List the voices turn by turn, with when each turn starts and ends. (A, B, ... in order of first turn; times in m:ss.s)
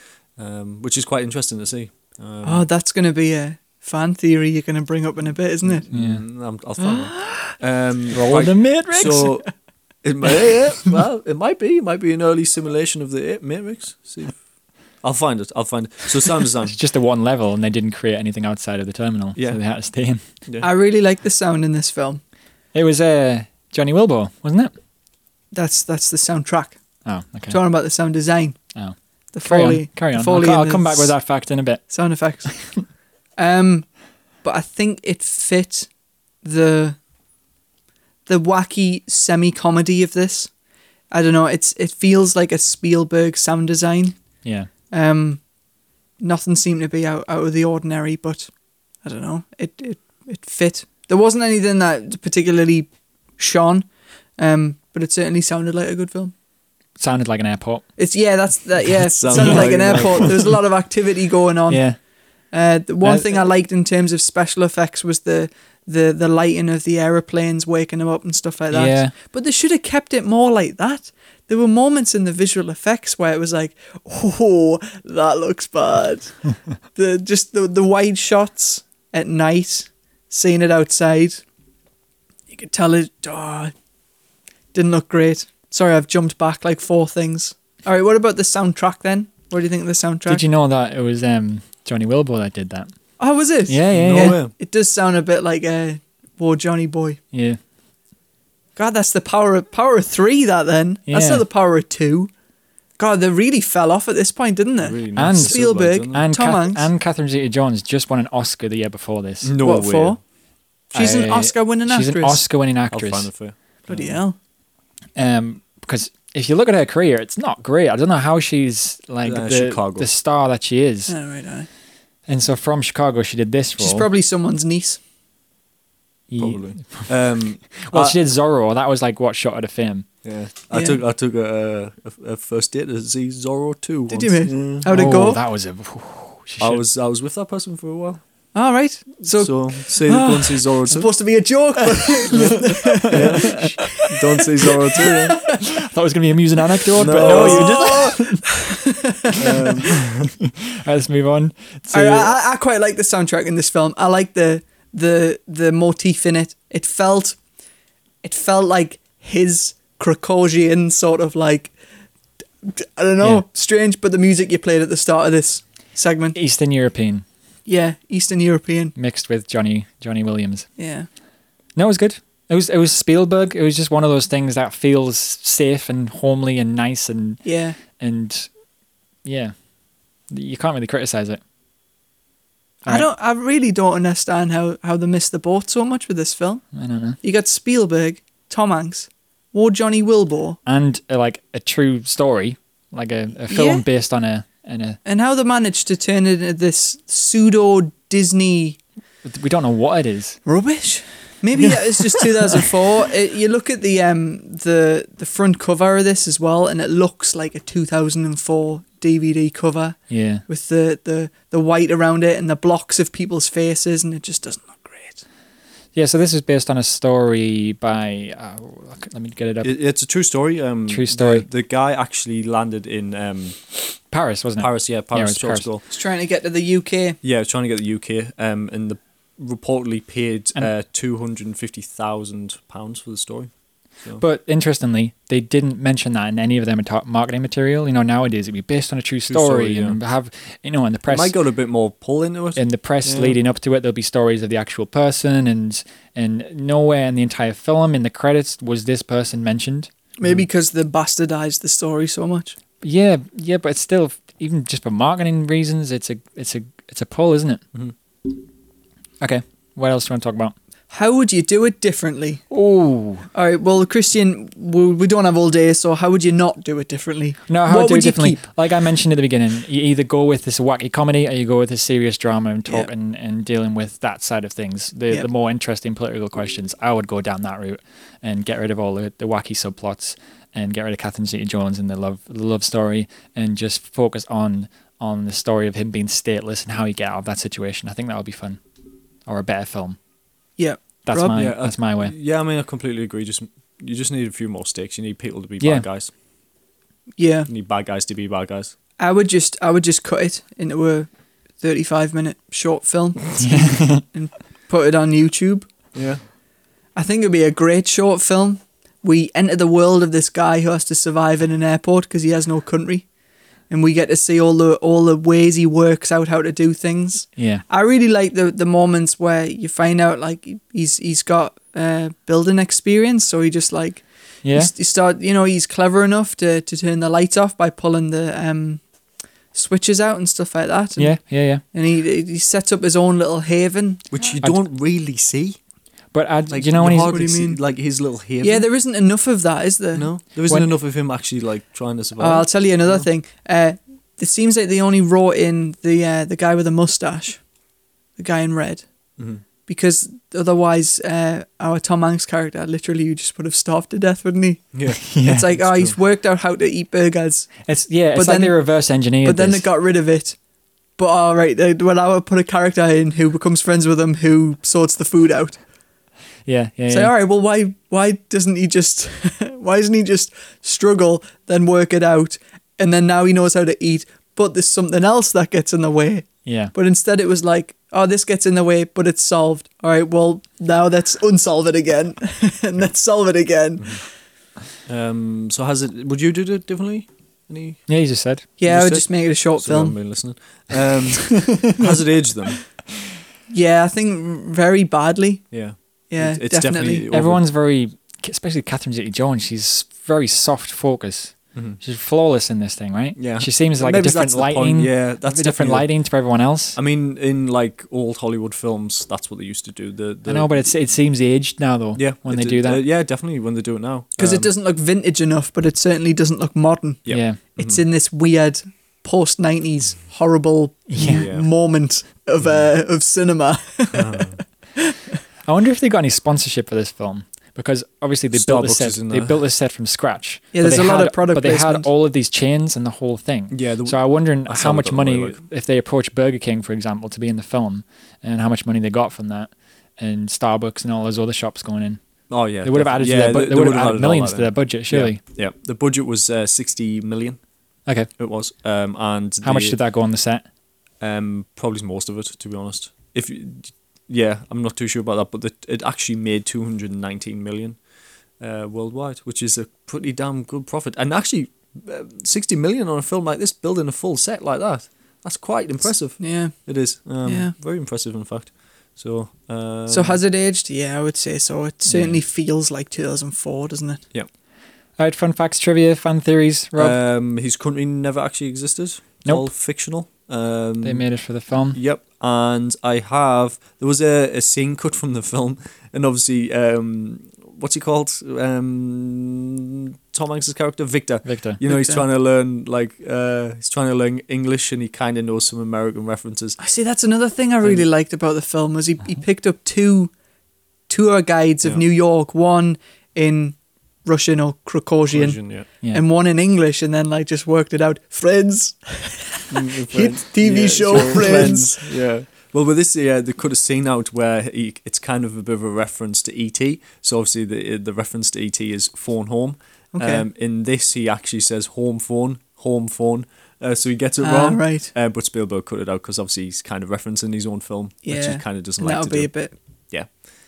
0:00.4-0:02.7 A
0:02.4-0:05.8 B
0:05.6-0:09.5 A
0:05.9-0:06.2 C
0:06.8-0:07.5 B
0:08.1-0:09.3 C
0:10.0-0:14.4 A
0:15.0-0:16.8 A
0:16.7-0:20.2 C
0:20.6-0:22.2 B
0:22.7-0:24.7 C
0:25.5-0:26.8 B
0:27.0-0:27.6 C
0:27.5-0:28.6 B
0:28.8-0:31.8 C
0:29.3-0:31.2 B
0:31.9-0:32.9 B
0:33.4-0:33.9 B
0:34.4-0:35.9 B
0:36.4-0:37.0 B
0:38.3-0:40.5 B
0:41.1-0:44.2 B
0:44.4-0:44.7 C
0:44.9-0:45.4 B
0:46.2-0:48.5 B
0:49.0-0:53.9 B
0:54.4-0:56.3 B
0:57.0-0:57.8 C
0:58.0-1:01.8 B
0:59.2-1:00.5 A
0:59.4-0:59.7 C
1:01.7-1:02.0 C
1:02.5-1:21.4 B
1:03.0-1:03.3 C
1:08.7-1:09.1 C
1:22.5-1:23.7 B
1:24.7-1:30.4 B
1:30.3-1:32.9 C
1:33.2-1:37.2 B
1:33.7-1:34.4 C
1:33.9-1:34.5 A
1:37.3-1:37.6 C
1:38.8-1:42.3 B
1:41.1-1:41.4 C
1:43.0-1:46.9 B
1:44.8-1:46.2 A
1:45.2-1:49.5 C
1:49.4-1:50.2 A
1:49.6-1:50.2 B
1:50.9-1:52.4 B
1:50.9-1:53.3 C
1:52.9-1:54.2 A
1:53.9-1:54.4 B
1:55.2-2:01.2 C
1:59.2-2:00.1 A
2:01.1-2:01.7 B
2:02.3-2:04.1 C
2:03.8-2:05.0 B
2:06.3-2:07.1 C
2:06.4-2:08.2 A
2:07.8-2:10.1 C
2:10.2-2:14.9 A
2:10.7-2:11.0 B
2:14.1-2:15.4 B
2:14.9-2:16.8 C
2:16.6-2:18.2 A
2:18.5-2:25.7 B
2:19.2-2:21.1 A
2:22.3-2:25.4 A
2:23.2-2:23.7 C
2:25.5-2:28.4 C
2:27.0-2:28.0 A
2:27.1-2:29.6 B
2:29.3-2:30.3 A
2:30.4-2:32.4 C
2:31.9-2:37.4 B
2:38.2-2:41.7 B
2:42.6-2:46.4 B
2:46.3-2:47.2 C
2:47.7-2:49.0 B
2:49.0-2:50.7 C
2:50.8-2:51.1 B
2:51.8-2:58.5 C
2:57.4-2:57.8 B
2:59.2-2:59.5 C
3:00.3-3:01.4 C
3:02.9-3:06.6 B
3:06.7-3:07.2 C
3:07.2-3:10.6 B
3:10.7-3:15.0 C
3:13.5-3:13.8 B
3:15.0-3:18.8 B
3:19.2-3:20.4 C
3:20.4-3:35.2 B
3:22.2-3:22.6 C
3:30.1-3:30.4 C
3:36.0-3:39.7 C
3:39.6-3:43.7 A
3:40.9-3:41.5 C
3:44.1-3:45.7 C
3:44.6-3:45.8 A
3:45.9-3:47.2 B
3:47.2-3:53.5 A
3:54.2-4:01.3 C
3:59.3-4:00.0 A
4:01.1-4:03.4 A
4:02.6-4:09.9 C
4:10.2-4:12.6 B
4:12.8-4:17.6 C
4:19.2-4:20.5 C
4:20.9-4:22.4 B
4:22.5-4:23.3 C
4:23.3-4:28.4 B
4:27.5-4:48.6 C
4:49.3-4:50.0 C
4:50.6-4:51.4 B
4:51.1-4:52.1 C
4:51.4-4:56.1 A
4:55.6-4:55.9 C
4:57.2-4:57.5 B
4:57.5-4:58.7 A
4:59.0-5:01.1 B
5:01.6-5:05.7 B
5:03.4-5:04.0 C
5:05.9-5:06.2 A
5:07.0-5:13.1 B
5:13.7-5:28.8 B
5:17.4-5:17.6 C
5:24.4-5:24.7 C
5:29.5-5:34.1 B
5:31.0-5:31.6 C
5:34.1-5:35.6 A
5:36.1-5:37.2 C
5:36.5-5:38.7 A
5:37.0-5:37.6 B
5:38.4-5:40.1 B
5:40.0-5:43.0 A
5:42.2-5:47.4 B
5:48.2-5:48.8 B
5:49.2-5:49.4 A
5:49.7-6:00.4 B
5:54.7-5:55.9 A
5:55.1-5:55.5 C
5:57.6-5:59.6 C
6:01.0-6:05.6 B
6:06.5-6:07.1 C
6:06.9-6:24.0 B
6:16.4-6:16.7 C
6:24.9-6:27.8 A
6:27.9-6:28.4 C
6:28.6-6:30.0 B
6:28.6-6:32.6 A
6:33.5-6:35.5 B
6:35.5-6:37.4 A
6:36.1-6:37.0 B
6:37.1-6:46.8 C
6:43.2-6:45.9 A
6:46.8-6:50.7 A
6:50.3-6:52.8 C
6:52.0-6:54.5 A
6:54.2-7:05.0 B
6:57.0-6:57.8 A
6:57.1-6:57.4 C
7:00.9-7:01.3 C
7:01.0-7:01.5 A
7:03.9-7:04.4 A
7:05.5-7:22.0 C
7:08.3-7:09.4 A
7:10.5-7:11.9 B
7:13.5-7:15.4 A
7:22.3-7:27.4 A
7:22.6-7:25.2 C
7:28.2-7:29.8 A
7:29.4-7:30.4 C
7:31.0-7:37.8 A
7:38.4-7:50.2 A
7:46.2-7:46.7 B
7:47.2-7:47.5 B
7:49.9-7:54.0 B
7:51.9-7:52.2 C
7:55.0-7:57.0 C
7:56.8-8:01.0 A
8:00.8-8:01.8 C
8:01.7-8:16.6 A
8:11.2-8:11.6 C
8:11.7-8:12.0 B
8:16.6-8:20.1 B
8:17.6-8:17.9 A
8:20.9-8:31.9 B
8:25.1-8:25.7 A
8:29.5-8:49.3 A
8:39.9-8:40.3 B
8:44.2-8:44.9 B
8:48.0-8:49.5 B